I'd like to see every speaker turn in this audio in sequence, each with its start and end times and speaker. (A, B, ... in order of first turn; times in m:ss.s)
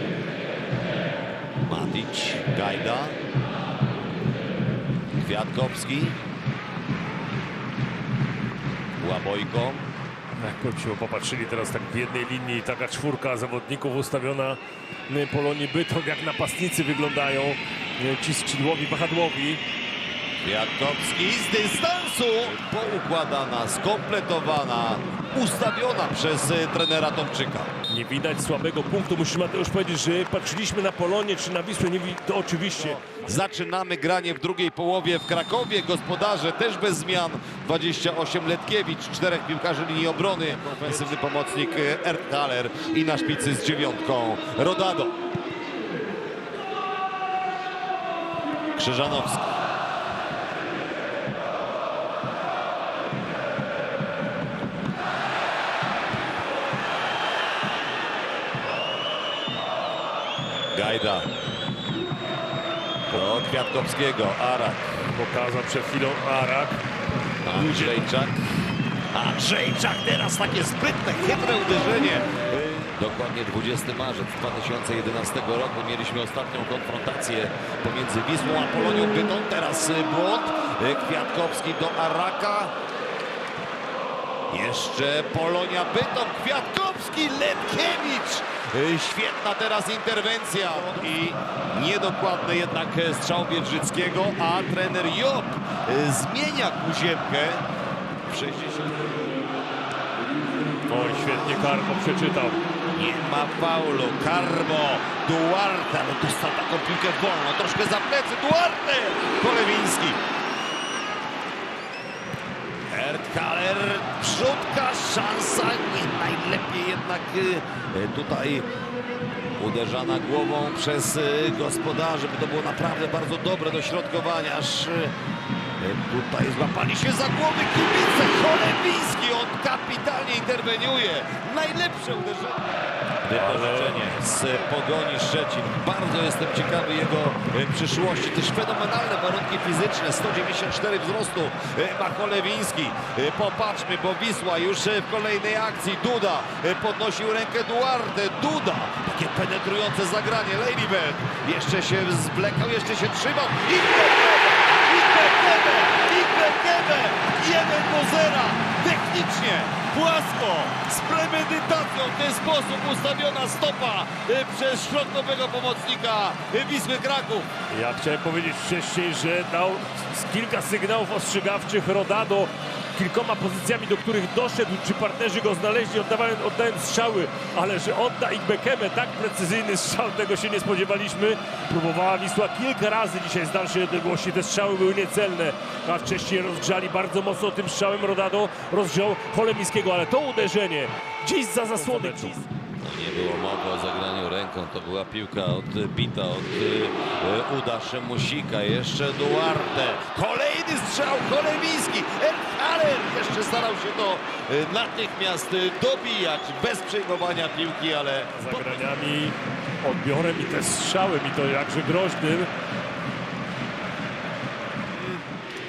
0:01.7-0:03.2 A
0:05.2-0:06.2 A
0:09.0-0:09.9 A
0:10.4-0:19.6 B
0:20.4-0:27.7 A
0:27.9-0:33.0 B
0:32.8-0:45.1 A
0:48.8-0:49.4 A
1:00.7-1:01.3 A
1:03.1-1:05.0 A
1:05.0-1:06.8 B
1:07.4-1:08.4 A
1:07.5-1:08.0 B
1:09.1-1:22.7 A
1:24.5-1:37.6 A
1:38.3-1:39.2 A
1:40.9-1:42.6 B
1:42.9-1:50.2 A
1:52.9-1:58.7 A
1:59.6-2:05.1 A
2:05.8-2:12.6 A
2:13.2-2:47.5 A
2:13.3-2:14.2 B
2:47.7-3:12.5 B
3:12.8-3:28.8 A
3:28.3-3:32.5 B
3:35.0-3:35.2 A